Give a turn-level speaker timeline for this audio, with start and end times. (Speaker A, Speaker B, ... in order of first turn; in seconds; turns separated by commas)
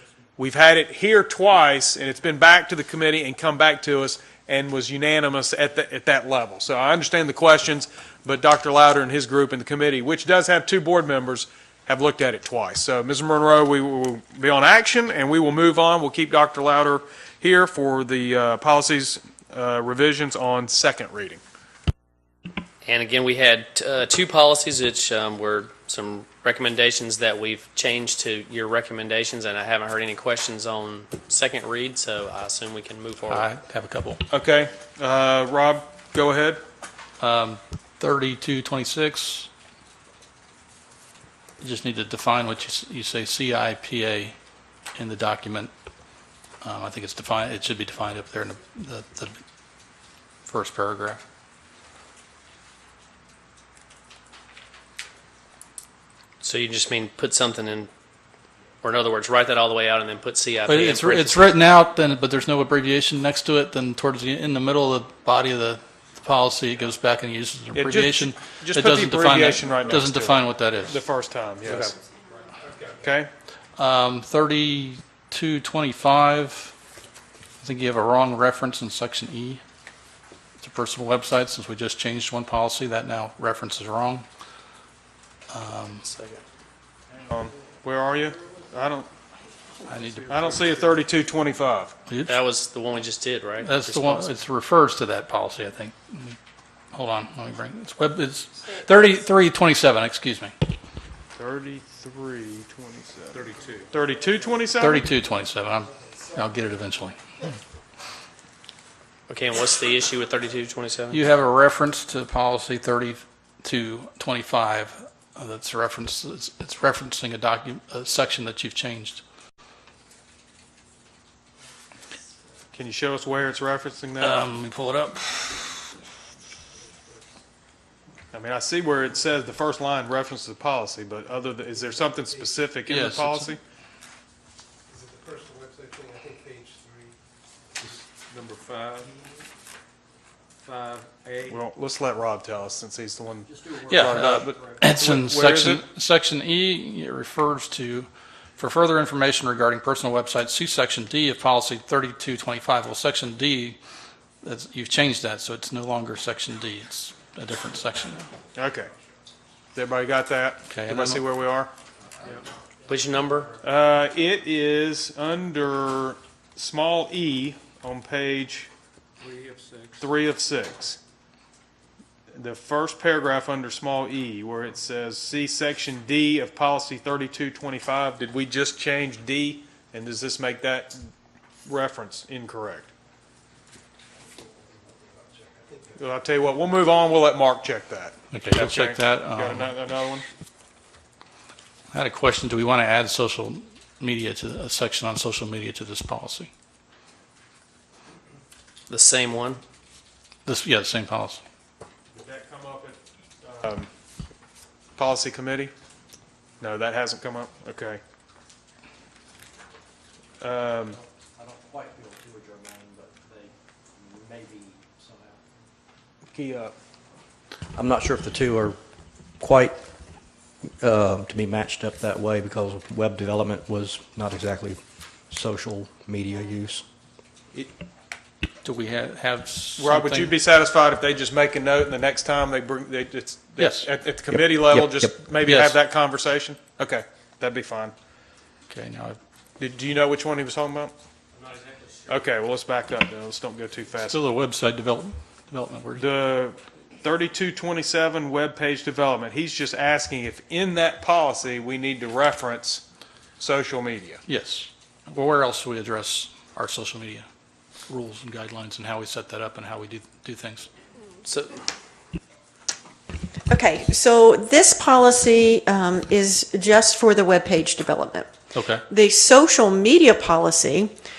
Speaker A: 0.4-21.4, Speaker B: 22.8-33.5, Speaker C: 33.3-34.2, Speaker A: 34.3-36.6, Speaker C: 37.2-39.5, Speaker C: 41.6-44.3, Speaker C: 45.0-45.7, Speaker C: 46.6-49.4, Speaker C: 50.5-51.2, Speaker B: 56.4-57.9, Speaker B: 58.8-61.5, Speaker C: 60.6-71.0, Speaker A: 67.7-71.9, Speaker A: 73.0-73.3, Speaker C: 73.8-76.7, Speaker C: 77.6-79.6, Speaker C: 80.6-84.2, Speaker C: 85.5-86.1, Speaker B: 86.0-86.4, Speaker A: 87.3-89.1, Speaker C: 89.9-90.7, Speaker D: 89.9-91.0, Speaker A: 90.3-91.9, Speaker C: 92.1-92.4, Speaker B: 92.2-94.4, Speaker C: 93.6-96.4, Speaker C: 96.9-100.5, Speaker A: 101.4-105.1, Speaker D: 103.3-103.9, Speaker C: 104.8-107.6, Speaker B: 109.3-111.2, Speaker C: 111.1-119.2, Speaker A: 122.7-124.4, Speaker C: 124.2-125.9, Speaker E: 126.8-127.2, Speaker A: 128.3-133.6, Speaker C: 132.8-133.5, Speaker E: 134.9-137.2, Speaker D: 137.8-139.2, Speaker D: 140.6-141.6, Speaker A: 141.5-145.8, Speaker C: 143.9-153.8, Speaker C: 154.4-158.3, Speaker A: 158.6-158.9, Speaker A: 159.7-161.7, Speaker C: 160.7-161.2, Speaker B: 162.9-163.5, Speaker A: 163.6-168.7, Speaker D: 169.2-170.1, Speaker A: 170.0-171.0, Speaker A: 172.3-181.0, Speaker A: 181.6-182.9, Speaker E: 184.2-186.0, Speaker A: 186.0-190.2, Speaker C: 188.3-189.7, Speaker C: 191.9-196.5, Speaker B: 198.9-199.6, Speaker C: 200.4-201.4, Speaker A: 202.1-203.9, Speaker A: 205.0-205.7, Speaker A: 206.6-208.0, Speaker A: 210.4-211.0, Speaker F: 210.9-215.4, Speaker A: 216.3-216.7, Speaker F: 217.7-218.8, Speaker F: 219.4-219.9, Speaker F: 220.7-226.8, Speaker C: 228.6-230.4, Speaker A: 229.8-237.9, Speaker C: 233.6-233.9, Speaker F: 234.6-235.1, Speaker C: 235.4-235.8, Speaker C: 238.7-239.2, Speaker A: 239.6-240.9, Speaker B: 241.3-242.2, Speaker A: 242.1-244.2, Speaker C: 244.0-246.1, Speaker A: 246.0-252.8, Speaker A: 253.4-254.2, Speaker C: 254.3-257.2, Speaker C: 257.9-260.7, Speaker B: 261.2-261.6, Speaker G: 263.5-268.3, Speaker C: 268.5-268.8, Speaker G: 268.9-270.9